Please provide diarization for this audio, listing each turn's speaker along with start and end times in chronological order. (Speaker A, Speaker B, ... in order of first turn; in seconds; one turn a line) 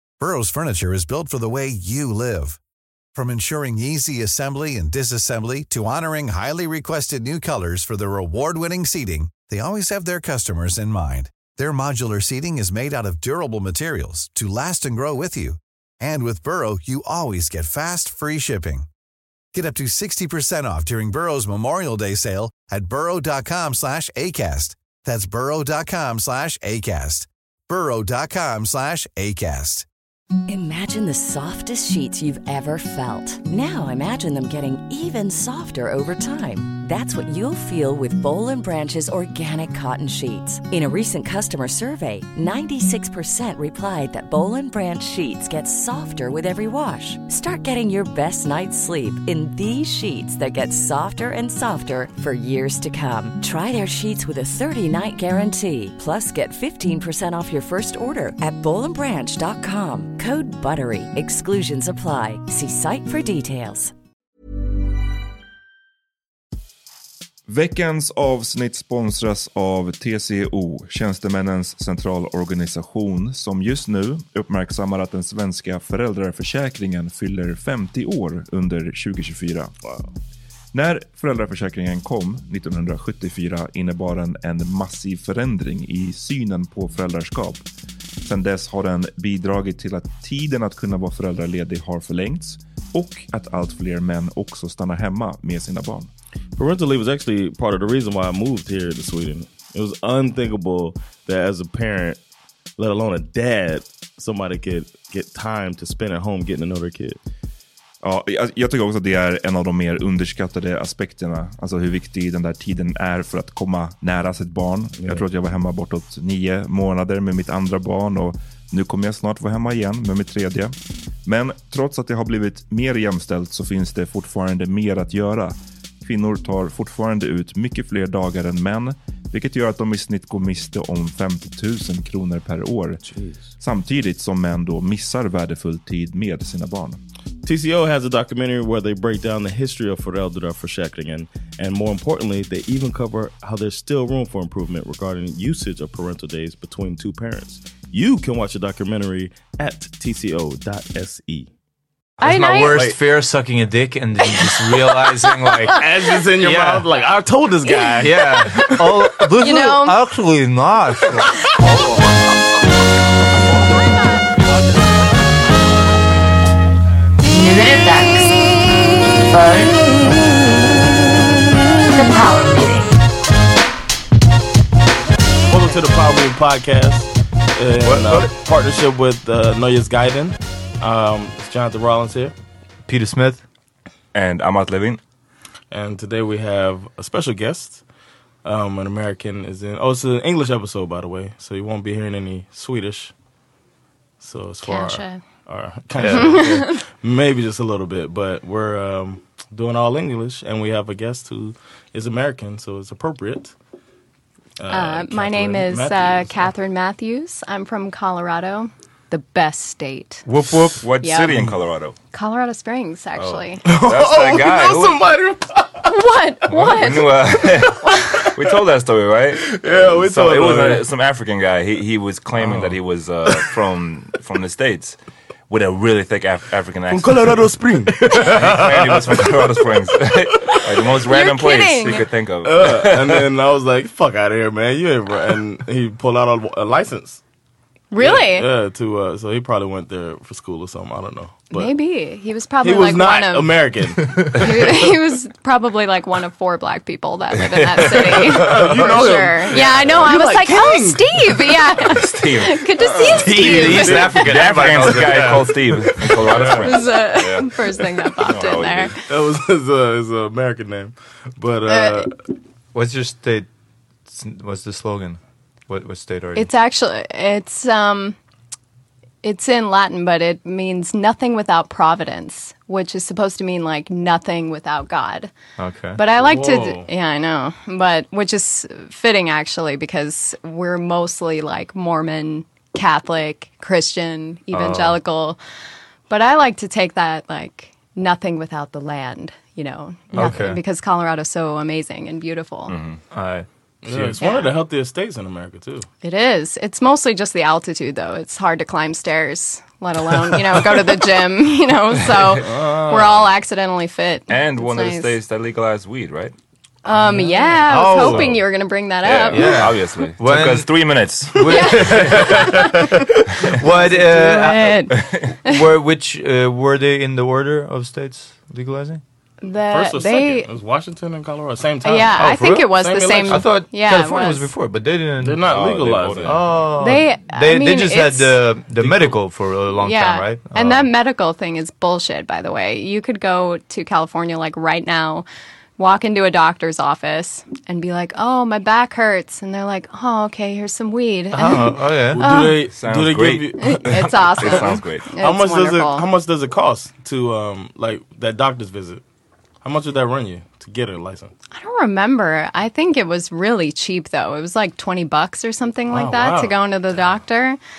Speaker A: 0.2-2.6
Speaker A: 3.1-18.9
Speaker A: 19.5-29.9
Speaker B: 30.5-63.9
Speaker C: 67.5-79.7
Speaker D: 79.8-80.1
Speaker C: 80.7-87.7
Speaker C: 88.2-96.1
Speaker D: 96.6-102.2
Speaker D: 102.8-107.2
Speaker C: 108.0-133.0
Speaker C: 133.6-137.0
Speaker D: 137.4-151.5
Speaker E: 152.2-152.9
Speaker F: 152.2-155.8
Speaker E: 154.3-155.7
Speaker D: 155.8-158.8
Speaker F: 156.4-156.9
Speaker E: 157.7-158.0
Speaker F: 158.0-161.3
Speaker E: 159.4-160.0
Speaker G: 167.2-168.5
Speaker G: 169.3-169.8
Speaker G: 171.9-173.0
Speaker D: 175.5-182.3
Speaker F: 177.8-178.3
Speaker F: 182.9-183.4
Speaker C: 184.1-185.0
Speaker D: 185.7-187.8
Speaker D: 188.4-193.1
Speaker D: 194.2-203.5
Speaker E: 194.7-195.2
Speaker F: 196.0-196.4
Speaker E: 196.1-196.8
Speaker D: 204.6-206.5
Speaker E: 204.7-210.2
Speaker F: 210.3-210.9
Speaker C: 210.8-212.0
Speaker E: 211.0-211.5
Speaker E: 212.1-213.7
Speaker D: 213.6-215.9
Speaker C: 213.8-215.0
Speaker E: 215.9-218.2
Speaker C: 216.5-225.0
Speaker D: 219.4-220.9
Speaker D: 222.4-222.8
Speaker C: 225.5-227.4
Speaker D: 226.9-229.6
Speaker C: 228.1-233.3
Speaker E: 230.7-232.1
Speaker D: 232.4-237.2
Speaker E: 237.9-238.5
Speaker D: 238.0-241.7
Speaker E: 241.5-243.6
Speaker D: 242.6-244.8
Speaker E: 244.3-254.3
Speaker C: 247.3-248.9
Speaker D: 248.2-251.6
Speaker C: 251.8-252.7
Speaker D: 252.8-254.1
Speaker F: 253.2-256.6
Speaker C: 253.5-257.6
Speaker D: 256.0-257.2
Speaker E: 256.6-258.9
Speaker C: 258.2-258.9
Speaker D: 259.1-262.1
Speaker E: 261.7-262.1
Speaker F: 262.7-263.5
Speaker F: 264.1-266.5
Speaker E: 266.4-268.2
Speaker E: 269.2-275.3
Speaker F: 275.6-276.0
Speaker E: 276.0-285.4
Speaker D: 276.2-276.9
Speaker F: 284.5-285.0
Speaker E: 286.1-292.8
Speaker F: 290.1-290.6
Speaker C: 292.7-293.0
Speaker F: 293.1-294.2
Speaker D: 293.8-295.9
Speaker E: 294.2-294.6
Speaker E: 296.0-305.1
Speaker D: 302.3-303.0
Speaker C: 304.3-306.3
Speaker E: 306.9-309.8
Speaker F: 307.1-308.4
Speaker C: 309.0-312.0
Speaker F: 309.3-310.7
Speaker F: 311.3-314.9
Speaker E: 311.5-313.0
Speaker E: 313.7-315.7
Speaker C: 314.9-315.3
Speaker F: 315.4-319.0
Speaker E: 319.4-320.5
Speaker D: 319.7-323.5
Speaker E: 321.8-324.5
Speaker F: 322.2-325.4
Speaker D: 325.2-326.4
Speaker C: 325.4-326.7
Speaker F: 326.2-330.9
Speaker E: 326.8-328.4
Speaker D: 328.8-329.1
Speaker E: 329.8-335.3
Speaker E: 335.8-342.6
Speaker F: 341.3-342.2
Speaker D: 342.1-349.0
Speaker C: 342.7-345.1
Speaker E: 343.6-346.1
Speaker D: 349.6-351.3
Speaker E: 351.5-357.6
Speaker D: 355.9-356.6